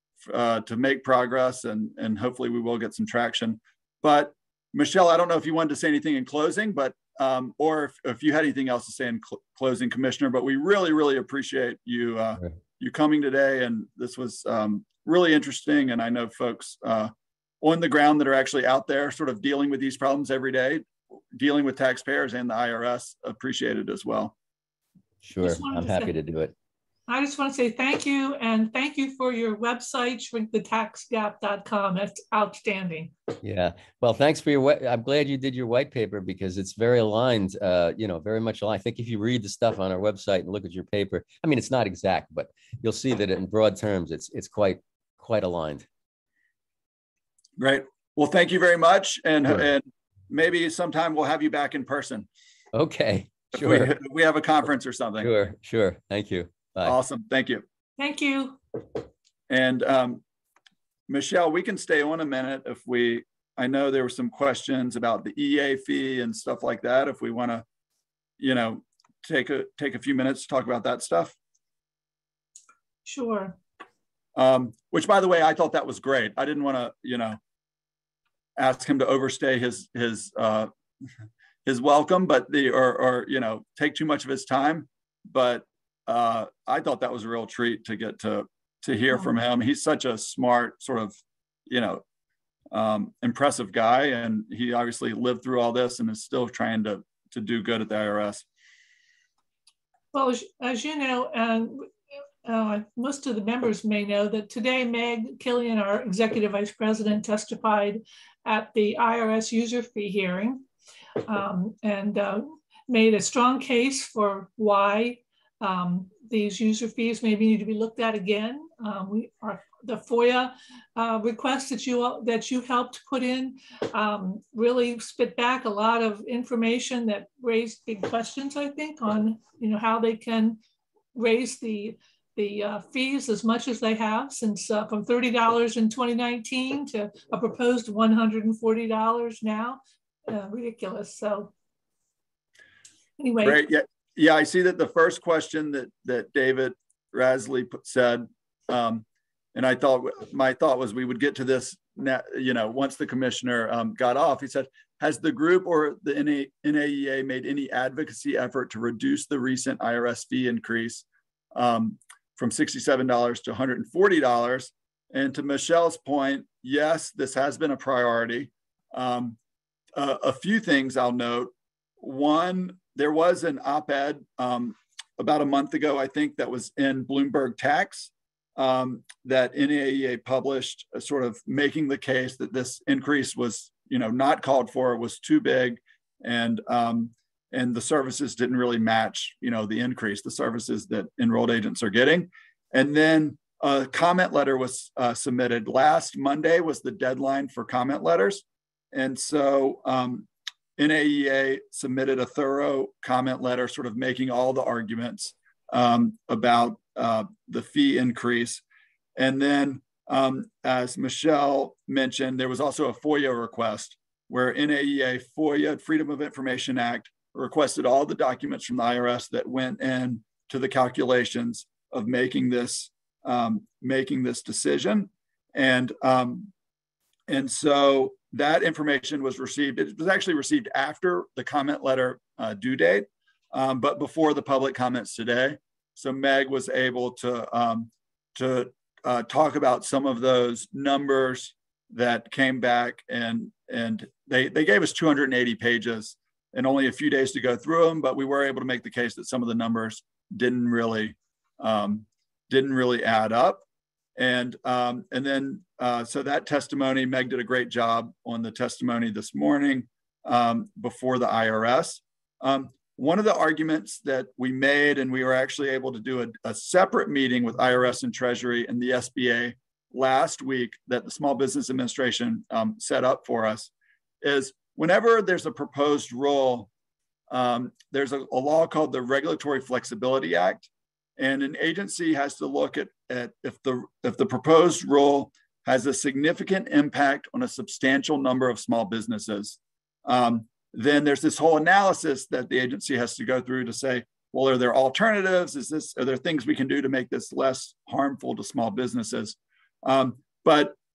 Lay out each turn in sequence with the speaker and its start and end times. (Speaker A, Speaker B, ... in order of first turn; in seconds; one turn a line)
Speaker A: 0.2-24.3
Speaker B: 25.2-26.5
Speaker C: 25.4-26.1
Speaker C: 27.1-33.1
Speaker B: 33.4-45.8
Speaker A: 47.6-52.3
Speaker B: 52.7-54.0
Speaker A: 53.6-55.3
Speaker B: 55.2-57.0
Speaker A: 56.8-57.6
Speaker C: 58.0-58.6
Speaker A: 59.5-60.2
Speaker A: 61.1-67.6
Speaker A: 68.4-71.3
Speaker C: 73.0-73.5
Speaker A: 74.3-77.4
Speaker A: 78.6-80.7
Speaker A: 81.6-91.2
Speaker A: 91.7-92.0
Speaker A: 92.7-98.4
Speaker C: 100.1-101.9
Speaker C: 102.4-110.7
Speaker C: 111.2-130.6
Speaker C: 131.1-141.5
Speaker C: 143.2-143.6
Speaker A: 143.4-169.4
Speaker A: 169.9-208.6
Speaker A: 209.2-226.5
Speaker A: 227.3-253.6
Speaker A: 254.2-273.7
Speaker A: 274.2-276.7
Speaker A: 277.3-300.7